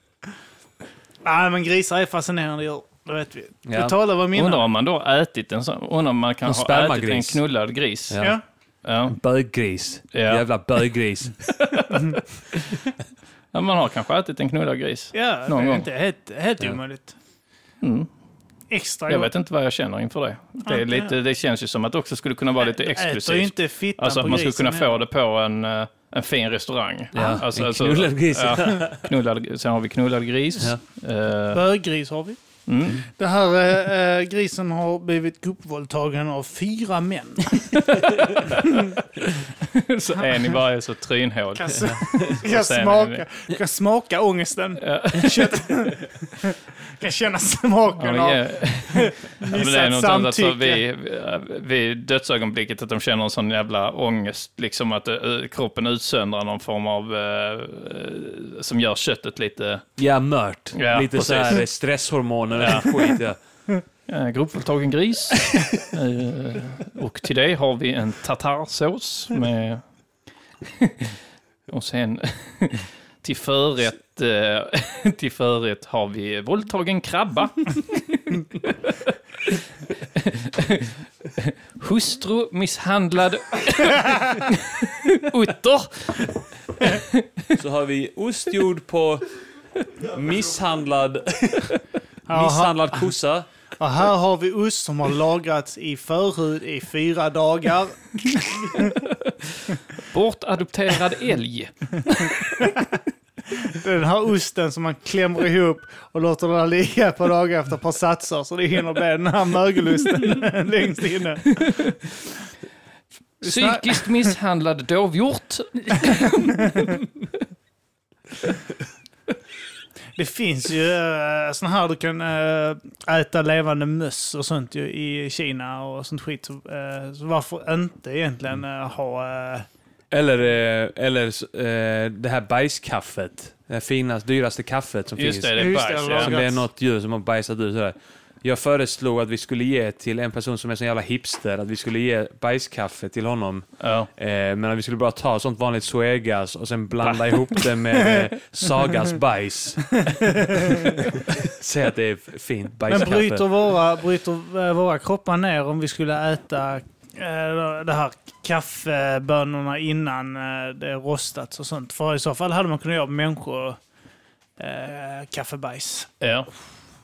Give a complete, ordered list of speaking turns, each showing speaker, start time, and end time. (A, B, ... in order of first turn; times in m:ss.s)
0:01.2-0:04.7 A
0:03.6-0:03.9 B
0:04.3-0:08.2 C
0:06.4-0:07.4 B
0:08.1-0:08.4 B
0:08.8-0:09.2 C
0:09.1-0:11.4 B
0:10.1-0:10.4 C
0:11.5-0:12.8 C
0:11.9-0:12.2 A
0:13.5-0:15.9 C
0:15.1-0:17.2 A
0:17.8-0:18.1 C
0:18.7-0:19.3 A
0:19.1-0:31.6 C
0:20.6-0:21.1 A
0:22.6-0:25.0 A
0:27.1-0:29.1 B
0:31.5-0:32.4 A
0:32.7-0:33.0 C
0:33.1-0:39.0 A
0:37.8-0:38.8 C
0:39.6-0:43.2 C
0:41.6-0:50.8 A
0:44.8-0:45.9 C
0:48.0-0:59.8 C
1:00.0-1:03.4 B
1:00.7-1:01.6 C
1:02.6-1:03.0 C
1:04.1-1:09.8 C
1:10.8-1:11.2 C
1:11.7-1:19.6 C
1:20.1-1:27.2 C
1:27.6-1:29.2 B
1:30.0-1:31.8 B
1:32.3-1:33.0 A
1:32.3-1:33.5 B
1:33.8-1:38.9 A
1:40.0-1:42.8 C
1:43.6-1:51.6 A
1:51.4-1:52.0 C
1:53.4-1:54.0 A
1:53.4-1:57.0 C
2:00.2-2:09.7 A
2:10.1-2:33.5 B
2:15.2-2:16.3 C
2:15.6-2:16.6 A
2:23.8-2:24.1 C
2:32.9-2:43.8 A
2:44.6-2:46.1 A
2:46.2-2:46.5 C